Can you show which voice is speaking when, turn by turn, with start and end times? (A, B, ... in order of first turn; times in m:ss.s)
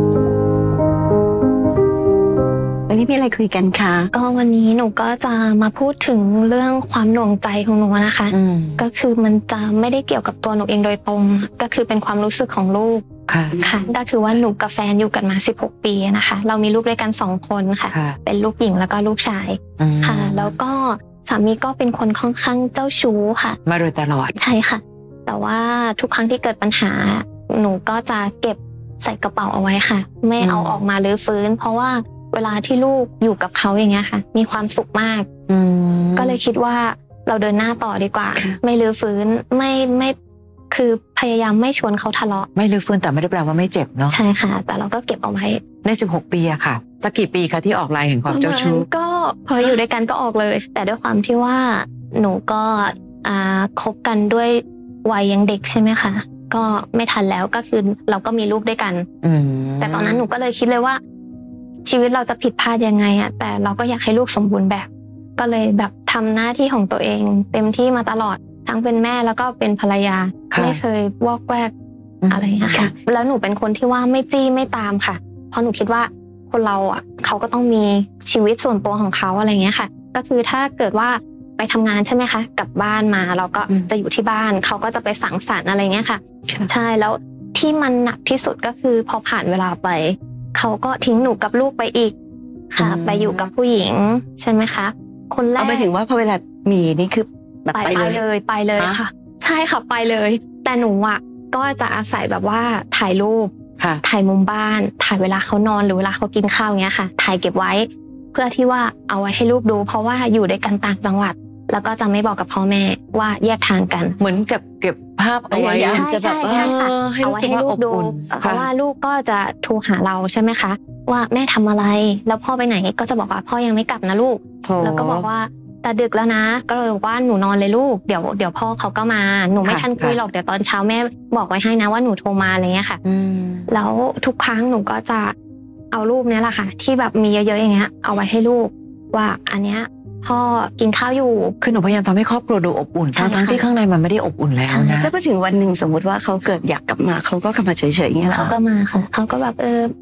0:02.9-0:04.1 A
0:04.1-0:13.0 B
0:08.3-0:08.8 C
0:13.3-0:13.6 C
0:13.6-0:23.6 B
0:17.9-0:18.2 C
0:19.8-0:20.5 C
0:23.6-0:24.4 C
0:24.4-0:35.3 B
0:30.4-0:30.8 C
0:35.5-0:36.4 C
0:36.2-0:40.1 B
0:40.7-0:42.5 B
0:42.5-0:44.2 C
0:44.1-0:45.6 B
0:45.8-0:48.8 C
0:48.3-0:59.0 B
0:59.2-1:00.2 C
0:59.8-1:01.0 B
1:01.8-1:11.7 B
1:10.5-1:10.8 C
1:12.2-1:12.9 C
1:12.3-1:32.1 B
1:32.7-1:35.9 B
1:32.8-1:33.5 C
1:35.6-1:38.2 A
1:37.7-1:43.5 B
1:44.0-1:54.2 B
1:54.2-1:58.7 C
1:55.5-1:56.7 A
1:55.9-2:13.0 B
2:04.6-2:05.3 C
2:09.6-2:10.2 C
2:13.0-2:13.7 C
2:13.7-2:15.3 B
2:15.9-2:21.6 B
2:21.6-2:25.1 C
2:23.2-2:23.6 B
2:24.6-2:25.0 B
2:25.0-2:28.6 A
2:28.3-2:29.9 B